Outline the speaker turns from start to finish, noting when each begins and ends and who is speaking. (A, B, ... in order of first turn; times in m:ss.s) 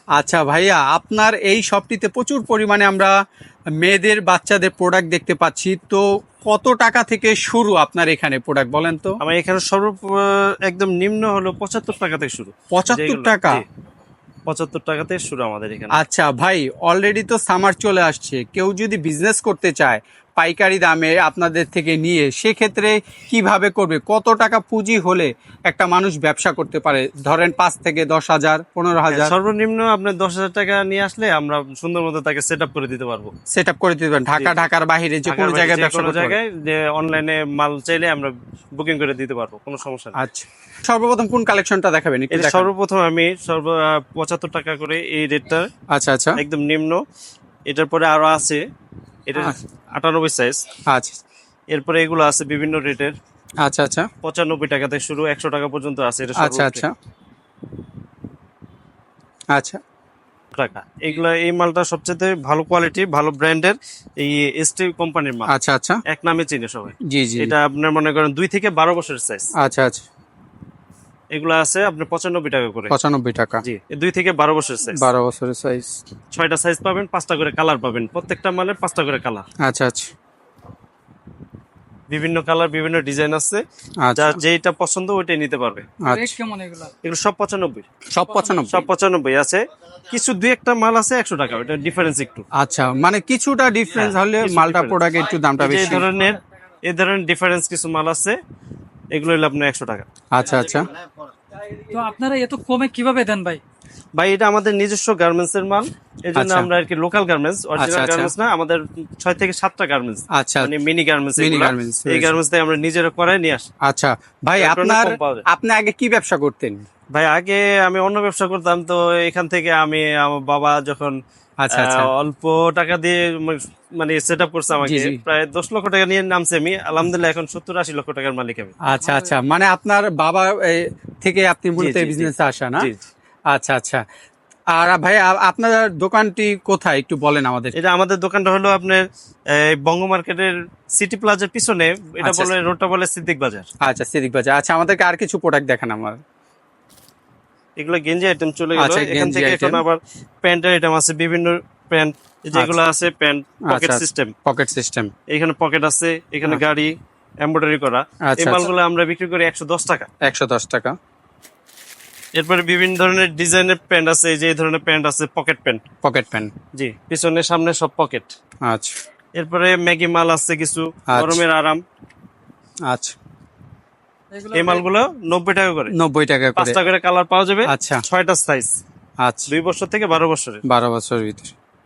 0:00.2-0:03.1 A
0:03.8-0:09.1 A
0:09.2-0:13.6 B
0:12.7-0:13.6 A
0:14.5-0:16.0 B
0:16.0-0:29.4 A
0:29.1-0:33.3 B
0:33.5-0:36.4 A
0:35.3-0:40.2 B
0:40.2-0:42.7 A
0:42.3-0:45.7 B
0:45.9-0:46.4 A
0:46.4-0:47.0 B
0:47.7-0:48.6 B
0:49.3-0:50.6 B
0:50.9-0:51.2 A
0:51.7-0:53.1 B
0:53.6-0:54.1 A
0:54.2-0:56.9 B
0:56.4-0:56.9 A
0:59.5-0:59.8 A
1:00.5-1:05.5 B
1:05.5-1:06.0 A
1:06.1-1:09.5 B
1:07.1-1:07.5 A
1:09.6-1:10.0 A
1:11.3-1:12.9 B
1:12.9-1:13.6 A
1:13.6-1:15.0 B
1:14.9-1:16.0 A
1:16.3-1:19.5 B
1:19.6-1:20.1 A
1:22.1-1:23.6 B
1:24.0-1:24.4 A
1:24.2-1:25.9 B
1:26.0-1:26.4 A
1:26.0-1:26.9 C
1:27.0-1:27.9 B
1:28.1-1:28.9 A
1:28.7-1:32.4 B
1:32.5-1:36.1 A
1:33.9-1:35.0 B
1:35.6-1:38.4 B
1:39.1-1:40.0 B
1:40.3-1:40.9 A
1:41.8-1:43.6 C
1:44.1-1:53.7 B
1:46.4-1:46.7 A
1:47.8-1:48.3 A
1:50.3-1:50.7 A
1:51.4-1:52.3 A
1:53.8-1:56.8 A
1:54.6-1:55.4 B
1:57.1-2:01.2 B
2:01.6-2:02.1 A
2:01.7-2:08.8 B
2:04.8-2:05.2 A
2:08.8-2:12.9 A
2:11.8-2:13.0 B
2:13.5-2:14.0 A
2:14.7-2:17.8 A
2:17.8-2:23.7 B
2:22.2-2:22.5 A
2:23.8-2:26.2 A
2:27.8-2:34.3 B
2:28.8-2:29.8 A
2:32.5-2:32.8 A
2:33.7-2:35.1 A
2:35.3-2:40.1 B
2:38.2-2:38.7 A
2:40.2-2:40.9 A
2:42.4-2:45.8 B
2:46.0-2:46.5 A
2:46.8-2:48.3 B
2:48.7-2:49.0 A
2:49.4-2:51.8 B
2:51.1-2:51.4 A
2:52.9-2:53.2 A
2:54.3-2:54.8 C
2:54.5-2:55.9 B
2:55.9-2:56.8 A
2:56.6-2:58.8 B
2:57.7-2:58.0 A
2:59.2-2:59.5 A
2:59.5-3:00.6 B
3:00.7-3:01.5 A